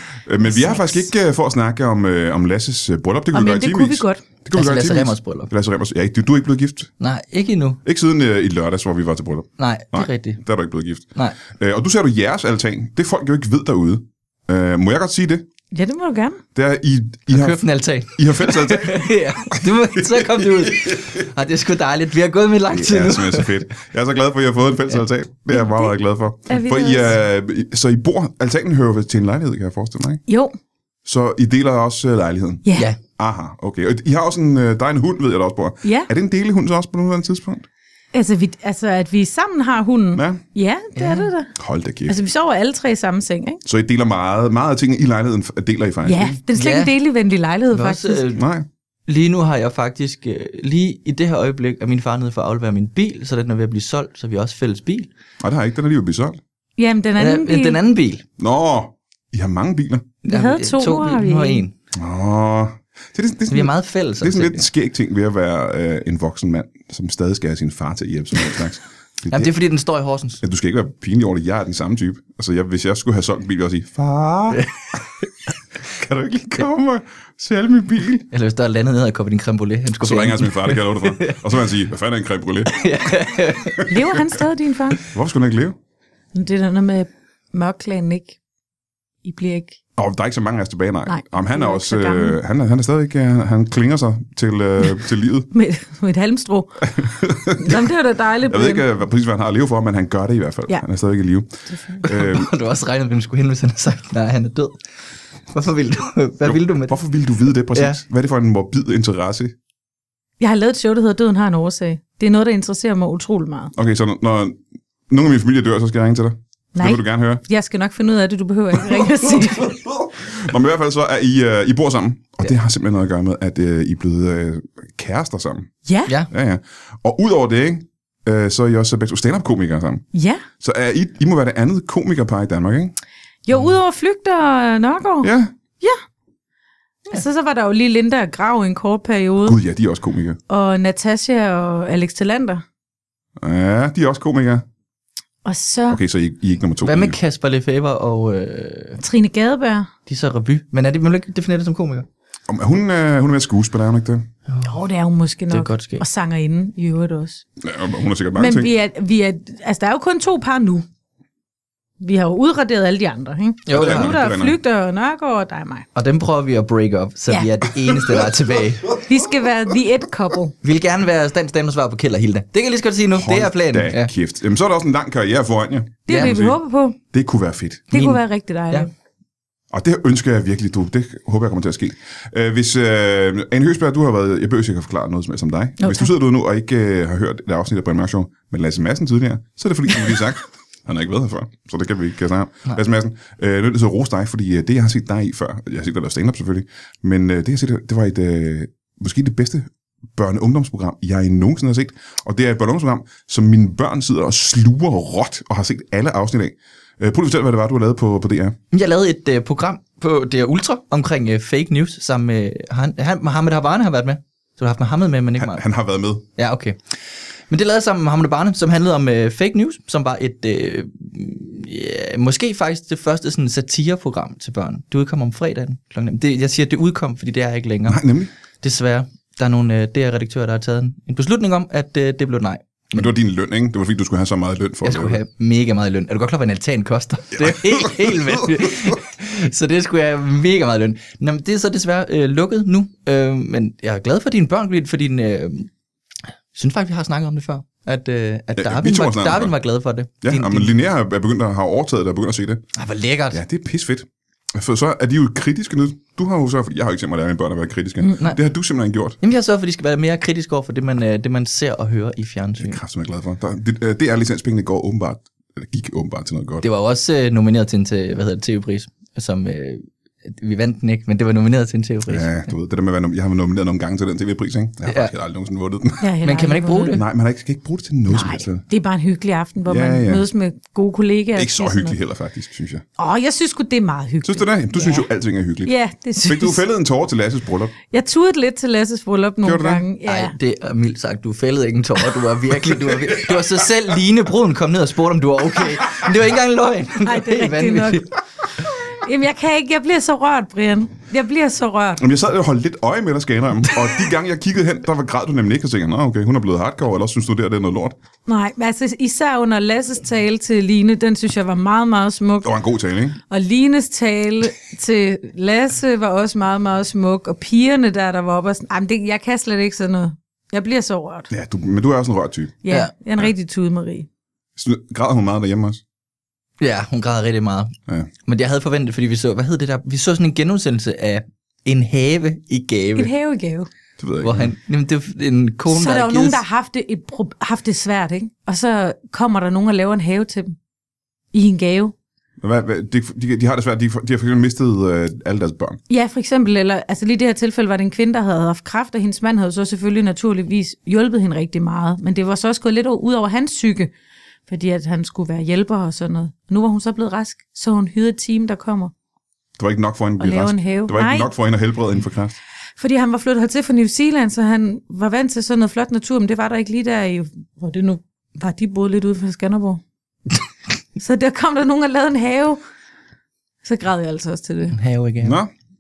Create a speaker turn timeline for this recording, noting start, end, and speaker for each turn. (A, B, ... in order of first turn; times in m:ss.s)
0:00.3-0:06.9 A
0:00.4-0:01.1 B
0:03.3-0:04.2 B
0:04.5-0:05.5 C
0:07.0-0:07.8 C
0:07.8-0:15.5 A
0:09.6-0:10.4 C
0:15.7-0:16.4 B
0:16.6-0:17.6 A
0:17.3-0:23.6 C
0:18.2-0:21.3 A
0:22.7-0:30.2 A
0:25.5-0:25.9 B
0:26.5-0:27.1 B
0:30.3-0:30.6 B
0:31.0-0:32.6 A
0:32.6-0:32.9 B
0:33.2-0:37.7 A
0:35.8-0:36.1 B
0:38.1-0:41.5 B
0:40.2-0:40.4 A
0:41.0-0:41.3 C
0:41.6-0:42.2 A
0:42.1-0:43.6 B
0:43.6-0:46.4 A
0:46.1-0:48.2 B
0:46.5-0:46.9 C
0:47.7-0:48.4 C
0:48.4-0:48.7 A
0:49.1-0:55.1 C
0:55.4-0:56.4 A
0:56.8-0:57.8 B
0:57.2-0:58.2 C
0:58.4-1:00.1 A
1:00.2-1:01.7 C
1:00.3-1:01.6 B
1:01.9-1:09.5 A
1:03.5-1:04.7 C
1:09.3-1:10.4 C
1:10.4-1:14.6 A
1:15.8-1:18.3 A
1:18.3-1:21.5 C
1:20.0-1:22.8 A
1:22.7-1:24.3 C
1:23.8-1:25.0 B
1:25.0-1:25.8 A
1:26.3-1:28.4 B
1:29.2-1:29.8 B
1:30.0-1:35.5 A
1:31.1-1:32.4 B
1:35.5-1:36.9 B
1:37.0-1:37.8 A
1:37.5-1:38.9 B
1:38.5-1:42.5 A
1:42.0-1:44.8 C
1:45.5-1:47.0 C
1:46.4-1:49.5 A
1:47.7-1:48.0 C
1:50.4-1:53.7 B
1:53.8-1:57.4 A
1:56.8-1:59.9 B
1:59.6-2:05.7 A
2:05.9-2:06.2 B
2:06.3-2:10.0 A
2:10.1-2:10.4 B
2:10.6-2:12.9 A
2:13.5-2:16.0 B
2:15.2-2:15.5 A
2:17.1-2:19.6 B
2:19.4-2:20.4 A
2:20.5-2:22.6 B
2:23.4-2:24.6 A
2:25.4-2:26.0 B
2:25.9-2:27.2 A
2:26.8-2:29.0 C
2:29.0-2:29.9 B
2:30.1-2:32.1 C
2:32.5-2:34.3 A
2:34.5-2:34.8 C
2:34.6-2:37.4 B
2:35.5-2:36.0 C
2:37.6-2:38.7 A
2:38.4-2:40.8 B
2:42.0-2:45.9 B
2:43.7-2:44.2 C
2:43.7-2:44.6 A
2:46.0-2:48.9 C
2:47.3-2:47.6 B
2:49.0-2:50.6 B
2:50.6-2:54.1 C
2:53.2-2:56.6 A
2:56.1-2:57.0 B
2:56.1-2:56.4 C
2:57.1-2:57.9 A
2:57.9-2:58.9 C
2:57.9-2:58.9 B
2:59.7-3:28.6 A
3:05.8-3:06.1 B
3:28.7-3:35.6 C
3:35.4-3:36.3 A
3:36.4-3:36.8 C
3:37.5-3:48.0 C
3:47.9-3:48.3 A
3:48.6-3:53.1 C
3:52.9-3:55.2 A
3:54.8-4:05.7 C
3:57.4-3:58.5 A
4:06.5-4:10.7 C
4:08.6-4:09.5 A
4:10.2-4:12.6 A
4:12.8-4:13.4 C
4:13.3-4:19.2 A
4:18.1-4:18.4 C
4:19.2-4:22.8 C
4:22.6-4:26.7 A
4:26.6-4:32.5 C
4:32.1-4:36.1 A
4:34.9-4:35.1 C
4:36.0-4:37.0 B
4:36.2-4:37.0 C
4:36.9-4:38.6 A
4:38.1-4:42.0 B
4:39.7-4:40.2 A
4:41.4-4:42.8 A
4:43.0-4:45.1 B
4:44.2-4:47.7 A
4:45.7-4:46.6 B
4:47.9-4:50.4 B
4:49.4-4:49.8 A
4:50.0-4:58.1 C
4:57.0-5:02.0 B
5:02.0-5:08.0 A
5:08.3-5:12.6 B
5:12.4-5:13.2 A
5:13.3-5:21.3 B
5:21.3-5:22.6 A
5:22.6-5:24.1 B
5:24.6-5:25.8 A
5:26.6-5:27.7 C
5:28.3-5:33.1 C
5:33.0-5:33.7 B
5:34.0-5:34.5 A
5:34.2-5:36.4 C
5:35.7-5:40.6 B
5:41.3-5:41.9 B
5:42.4-5:45.8 A
5:45.9-5:53.9 B
5:54.5-5:58.9 B
5:59.6-6:02.3 A
6:00.2-6:01.3 B
6:02.8-6:09.8 B
6:11.0-6:12.6 B
6:13.6-6:14.8 B
6:14.7-6:15.4 C
6:15.2-6:15.5 A